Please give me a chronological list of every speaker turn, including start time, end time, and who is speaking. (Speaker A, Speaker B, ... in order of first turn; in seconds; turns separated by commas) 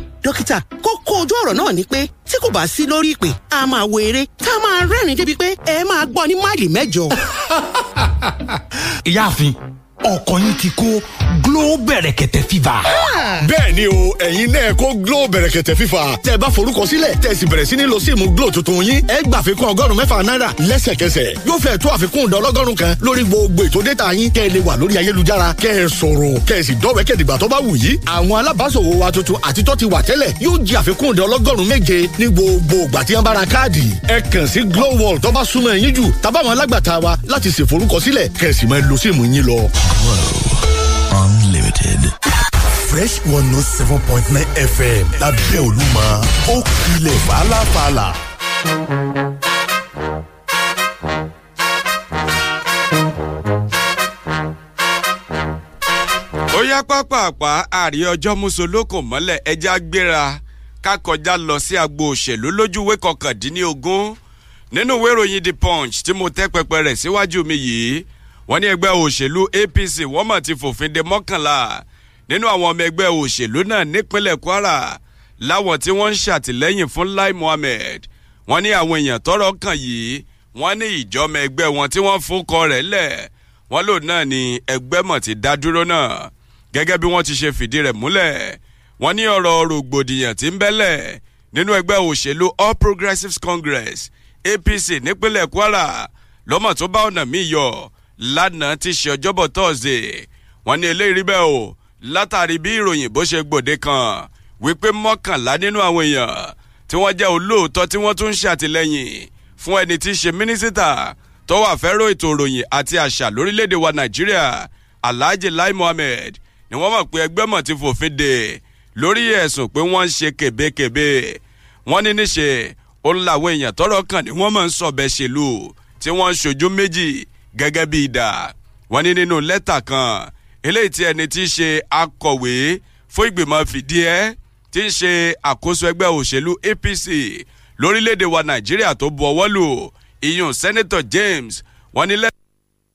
Speaker A: 0.2-7.1, Speaker B: 10.1-12.7, Speaker A: 13.0-13.4, Speaker C: 13.4-39.7, Speaker D: 42.8-48.2, Speaker E: 56.5-64.2, Speaker E: 64.7-142.3